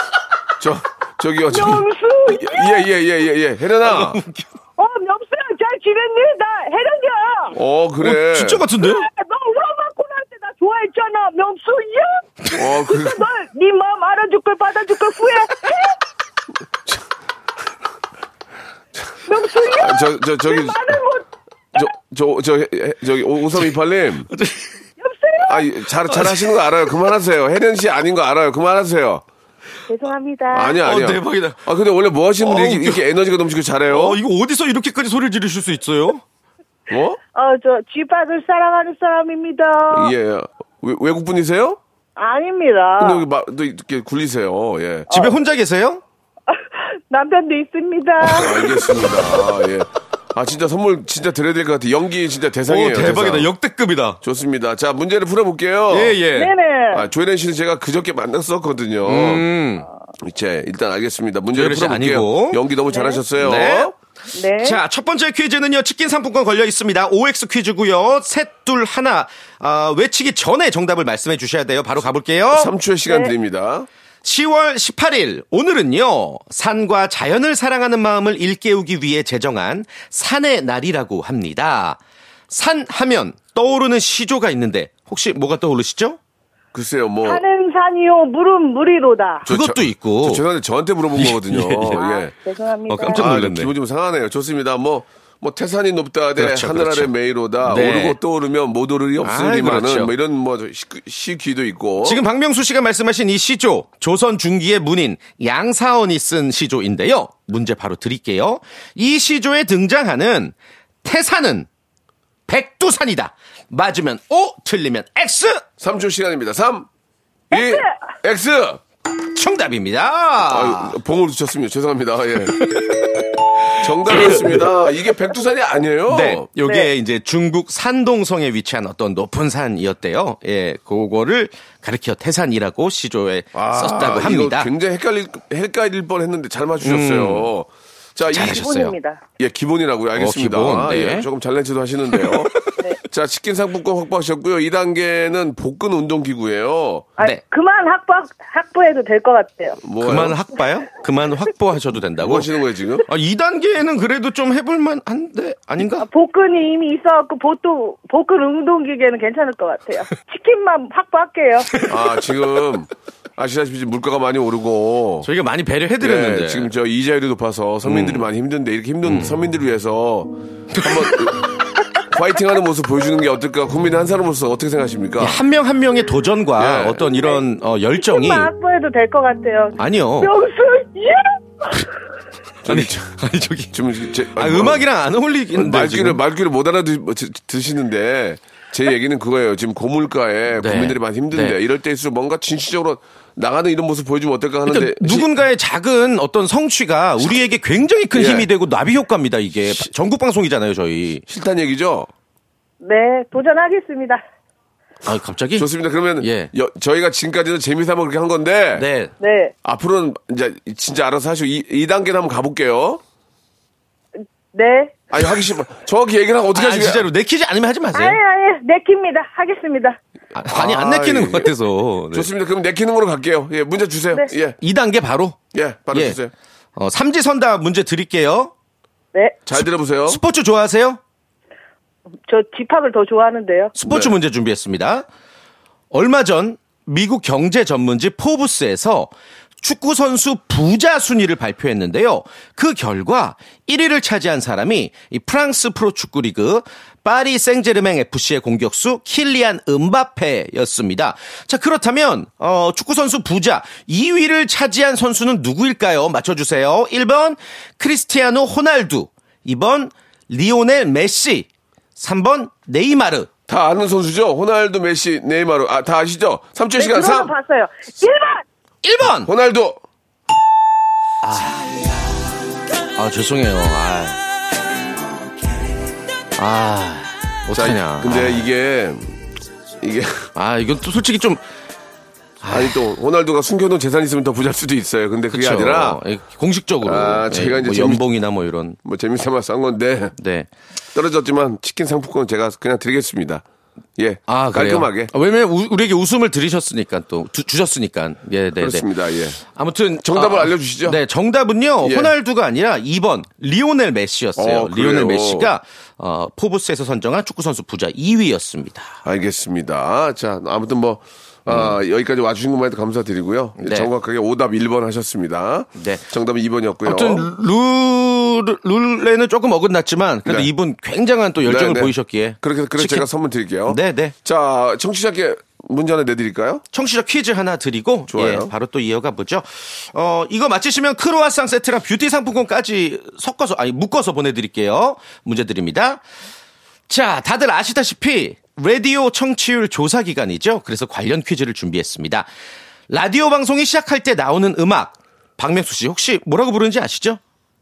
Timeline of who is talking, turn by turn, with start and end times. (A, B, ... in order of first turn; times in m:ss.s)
0:00.6-0:04.2 A
0:01.5-0:02.8 B
0:03.8-0:04.5 C
0:04.8-0:07.6 B
0:07.5-0:08.6 A
0:08.0-0:09.0 C
0:08.8-0:16.0 B
0:12.6-0:13.2 A
0:19.2-0:21.2 B
0:19.7-0:20.9 A
0:21.7-0:24.3 A
0:24.3-0:24.7 C
0:25.0-0:25.6 B
0:25.4-0:29.2 A
0:26.1-0:26.5 C
0:29.9-0:30.8 B
0:30.5-0:34.2 A
0:30.8-0:31.6 C
0:32.4-0:33.0 C
0:33.9-0:36.2 C
0:36.9-0:37.2 A
0:37.3-0:40.1 B
0:39.9-0:41.8 A
0:42.2-0:43.2 B
0:43.0-0:45.1 A
0:45.1-0:45.4 B
0:45.1-0:46.0 C
0:46.5-0:49.3 B
0:48.2-0:53.5 A
0:52.7-0:54.2 C
0:54.2-0:56.2 A
0:55.9-0:56.5 C
0:56.4-0:57.1 B
0:56.9-0:59.4 A
0:59.0-0:59.9 C
1:00.2-1:03.9 A
1:01.5-1:02.6 C
1:02.9-1:03.2 B
1:03.4-1:03.9 C
1:04.3-1:04.8 B
1:04.6-1:12.7 C
1:12.5-1:13.9 A
1:13.1-1:13.3 B
1:14.2-1:22.0 C
1:22.5-1:26.2 C
1:26.7-1:27.4 A
1:27.2-1:29.4 B
1:29.4-1:32.3 A
1:29.4-1:30.4 C
1:31.2-1:32.0 C
1:31.9-1:33.2 B
1:32.9-1:33.7 C
1:33.1-1:42.2 A
1:36.4-1:37.1 C
1:37.6-1:38.2 C
1:39.2-1:40.1 C
1:42.0-1:51.7 C
1:52.5-1:55.6 C
1:55.8-1:56.9 A
1:57.5-1:58.8 A
1:57.5-1:57.9 B
1:59.3-2:01.0 C
2:00.5-2:02.8 A
2:03.8-2:06.4 A
2:04.1-2:04.5 C
2:06.1-2:14.7 C
2:13.5-2:18.7 A
2:16.8-2:17.5 C
2:18.3-2:18.9 C
2:18.4-2:19.2 B
2:19.4-2:22.5 A
2:20.2-2:21.3 C
2:23.1-2:27.1 A
2:27.2-2:29.8 B
2:29.8-2:30.4 A
2:30.0-2:32.5 C
2:32.2-2:33.0 A
2:33.1-2:36.0 C
2:36.0-2:41.7 B
2:41.8-2:45.3 A
2:45.2-2:46.7 C
2:46.0-2:51.4 A
2:47.8-2:48.3 C
2:49.0-2:49.3 C
2:50.7-2:51.3 C
2:52.1-2:55.4 A
2:55.2-2:58.5 C
2:56.6-2:57.0 A
2:57.1-2:57.4 B
2:58.0-3:01.8 B
2:59.8-3:00.3 C
3:02.6-3:03.1 A
3:02.6-3:03.8 C
3:03.7-3:04.9 A
3:04.3-3:06.2 C
3:05.5-3:15.3 A
3:10.6-3:11.6 C
3:14.6-3:21.2 C
3:18.1-3:18.5 A
3:21.3-3:22.1 A
3:22.8-3:24.2 B
3:25.0-3:25.7 C
3:25.5-3:28.8 A
3:26.2-3:26.5 C
3:28.7-3:29.1 C
3:29.2-3:29.5 B
3:29.6-3:33.0 A
3:34.5-3:34.9 B
3:35.1-3:37.1 A
3:36.5-3:38.2 C
3:37.9-3:40.0 B
3:40.3-3:41.5 A
3:40.4-3:42.3 C
3:42.1-3:44.6 A
3:44.6-3:45.4 C
3:45.5-3:46.3 A
3:45.9-3:46.2 C
3:46.8-3:48.5 C
3:49.5-3:50.2 A
3:49.5-3:51.0 C
3:52.3-3:53.7 B
3:53.8-3:55.0 C
3:53.9-3:54.1 A
3:55.9-3:59.1 C
3:59.6-4:23.3 C
4:23.5-4:27.3 A
4:26.8-4:28.4 B
4:28.8-4:29.3 C
4:29.2-4:29.8 A
4:31.2-4:31.6 C
4:33.0-4:34.2 C
4:36.4-4:38.4 C
4:37.5-4:39.2 A
4:39.8-4:40.3 A
4:40.3-4:41.4 C
4:42.4-4:42.8 C
4:42.5-4:46.0 A
4:45.3-4:48.8 C
4:46.8-4:48.0 A
4:48.8-4:50.1 A
4:50.2-4:50.5 C
4:50.9-4:53.4 A
4:54.0-4:55.1 A
4:54.3-4:58.8 C
4:58.6-4:59.4 A
4:59.5-5:08.9 C
5:00.0-5:01.0 A
5:01.8-5:02.1 A
5:04.4-5:05.5 A
5:09.0-5:17.3 A
5:11.5-5:11.8 C
5:13.6-5:13.9 C
5:15.8-5:16.0 C
5:16.8-5:23.1 C
5:20.2-5:20.5 A
5:21.4-5:26.6 A
5:23.7-5:24.1 C
5:26.7-5:36.0 C
5:28.1-5:28.5 A
5:36.9-5:42.3 C
5:42.9-5:47.2 C